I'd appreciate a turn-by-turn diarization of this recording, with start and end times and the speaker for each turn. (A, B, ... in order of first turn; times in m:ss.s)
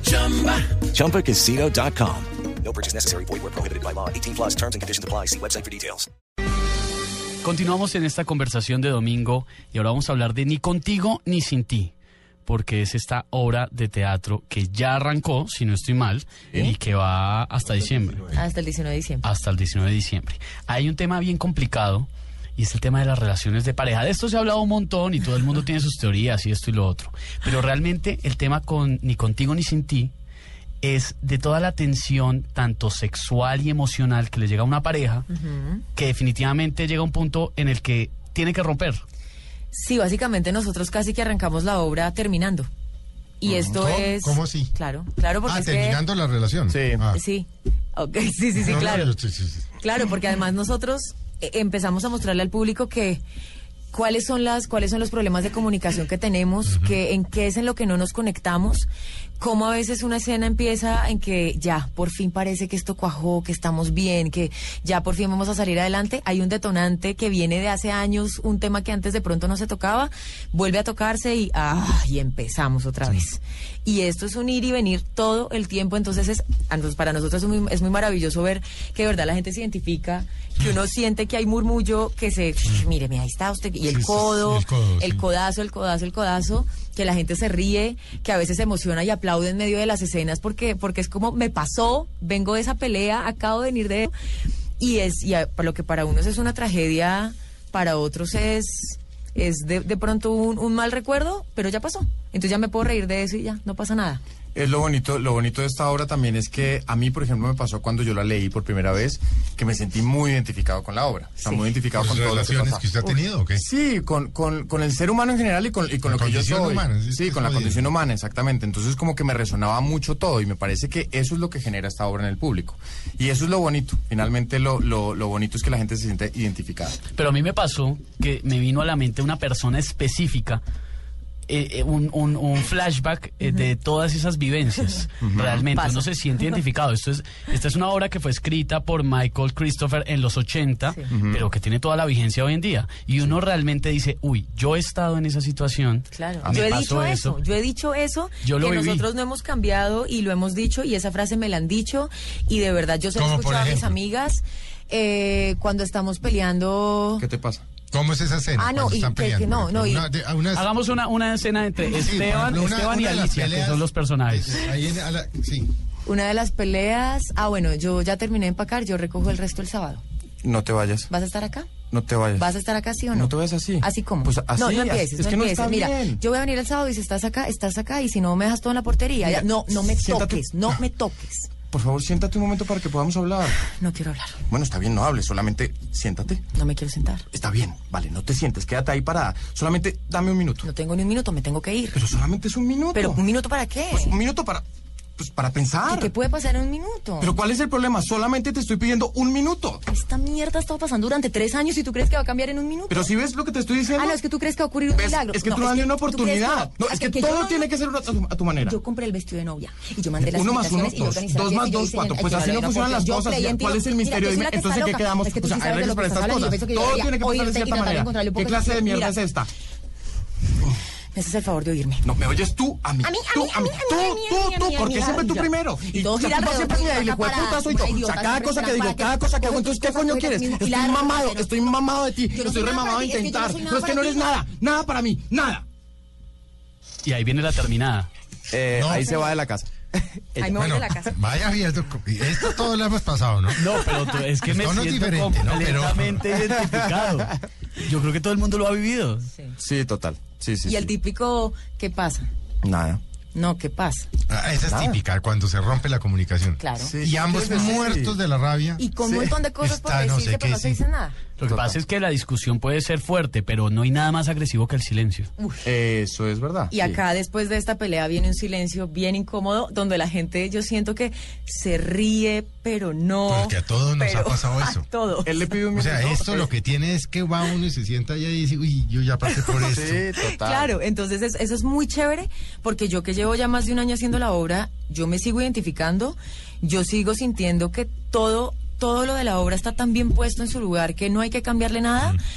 0:00.2-0:00.6 A
0:00.8-0:06.1 B
0:07.4-0:11.9 A
0:12.4-0:18.4 A
0:18.3-0:19.2 C
0:19.2-0:30.1 A
0:30.8-0:35.3 A
0:35.3-0:35.8 C
0:36.0-0:39.0 A
0:39.7-0:42.7 C
0:43.4-0:46.0 C
0:43.4-0:43.8 D
0:43.6-0:44.7 E
0:45.4-0:47.2 E
0:46.7-0:47.1 D
0:47.1-0:49.1 C
0:48.6-0:49.7 E
0:49.8-0:53.2 C
0:53.9-0:58.9 C
0:56.7-0:57.0 E
0:59.4-1:34.1 C
1:23.8-1:25.2 E
1:34.8-1:44.2 C
1:44.6-1:52.8 D
1:52.0-1:53.6 E
1:53.6-2:07.0 D
1:56.0-1:57.9 E
2:07.1-2:10.6 A
2:11.5-2:27.4 A
2:15.2-2:15.7 D
2:15.7-2:16.1 C
2:21.1-2:21.4 D
2:26.1-2:37.2 C
2:26.4-2:26.8 D
2:28.4-2:29.1 A
2:33.2-2:34.0 E
2:37.2-2:37.6 D
2:37.9-2:40.7 E
2:38.6-2:40.1 C
2:40.5-2:44.7 A
2:41.9-2:45.7 E
2:46.1-2:50.0 C
2:50.4-2:51.1 D
2:51.1-2:51.7 C
2:51.9-2:52.5 D
2:52.4-3:01.5 C
2:53.1-2:56.2 D
2:59.2-3:00.8 D
3:01.7-3:03.6 D
3:03.8-3:04.4 C
3:04.5-3:06.4 D
3:06.6-3:07.2 C
3:07.3-3:10.7 D
3:10.6-3:12.0 C
3:11.9-3:13.2 D
3:13.0-3:14.1 C
3:13.9-3:14.6 D
3:15.2-3:16.1 D
3:15.9-3:17.3 C
3:17.2-3:19.8 D
3:19.9-3:23.1 C
3:22.9-3:24.2 D
3:24.0-3:27.7 C
3:24.9-3:28.8 D
3:28.6-3:39.2 C
3:30.2-3:39.5 D
3:41.1-3:42.1 C
3:42.0-3:55.6 D
3:43.0-3:51.5 C
3:52.3-3:54.3 C
3:57.0-3:58.1 A
3:58.5-4:00.7 D
3:58.7-3:59.2 E
4:00.4-4:01.1 C
4:00.6-4:03.7 E
4:03.6-4:09.3 A
4:04.4-4:06.3 E
4:09.6-4:10.9 D
4:10.7-4:12.3 C
4:12.6-4:13.0 D
4:13.4-4:14.1 C
4:14.3-4:18.9 E
4:14.7-4:15.0 D
4:16.6-4:17.8 C
4:16.8-4:18.2 D
4:18.8-4:21.2 C
4:19.0-4:19.4 D
4:19.6-4:20.8 E
4:21.4-4:25.3 A
4:21.4-4:21.8 D
4:25.4-4:25.6 C
4:25.6-4:27.0 D
4:26.7-4:35.3 C
4:33.3-4:34.9 E
4:35.2-4:36.5 D
4:35.7-4:40.1 E
4:39.6-4:40.7 D
4:40.4-4:52.1 C